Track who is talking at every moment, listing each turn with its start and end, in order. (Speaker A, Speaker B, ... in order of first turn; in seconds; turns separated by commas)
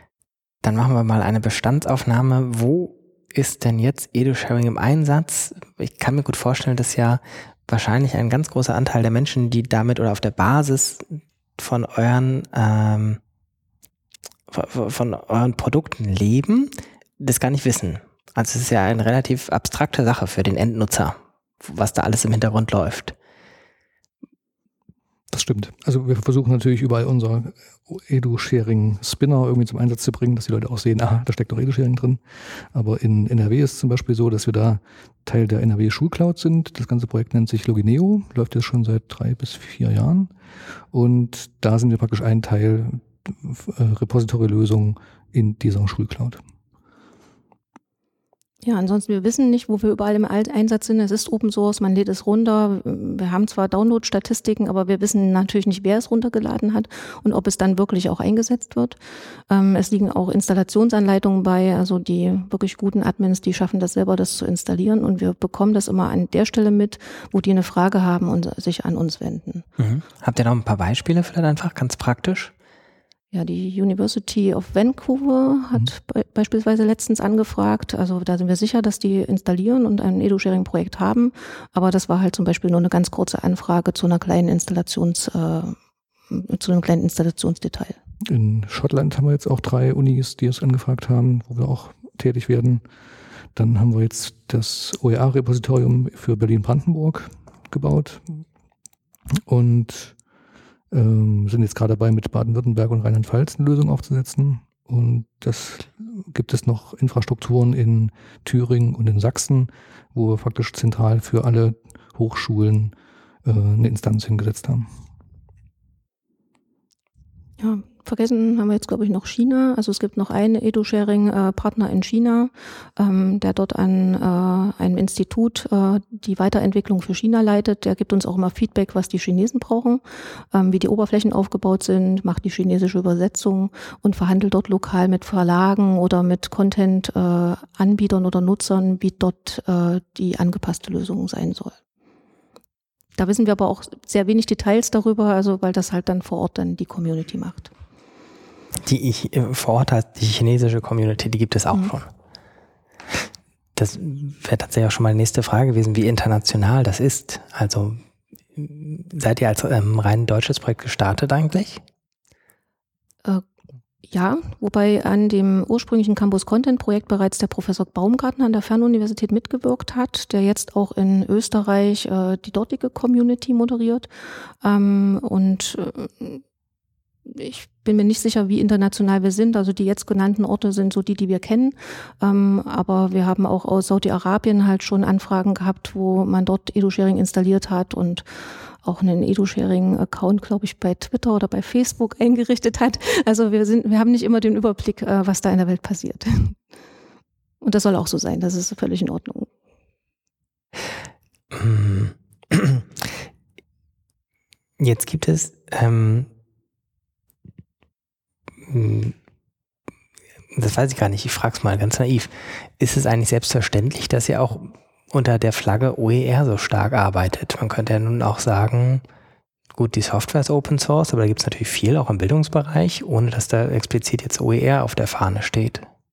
Speaker A: 0.6-13.2, Speaker A: 14.5-23.1, Speaker B: 25.3-32.2, Speaker B: 32.7-40.3, Speaker B: 40.9-46.4, Speaker C: 48.6-59.0, Speaker C: 59.5-69.7, Speaker A: 69.8-72.5, Speaker C: 73.3-85.8, Speaker C: 86.3-88.0, Speaker B: 88.2-92.8, Speaker B: 93.5-98.4, Speaker B: 99.5-100.2, Speaker B: 100.9-112.9, Speaker B: 113.5-114.9, Speaker C: 117.6-141.7, Speaker C: 143.2-147.7, Speaker A: 148.8-152.1, Speaker A: 153.8-158.0, Speaker A: 158.6-161.8, Speaker C: 164.1-174.1, Speaker C: 174.6-176.4, Speaker C: 177.3-188.2, Speaker C: 188.8-196.6, Speaker C: 197.6-199.5, Speaker A: 201.5-203.1, Speaker A: 204.8-206.3, Speaker A: 208.7-209.2, Speaker A: 210.5-219.0, Speaker A: 219.8-225.9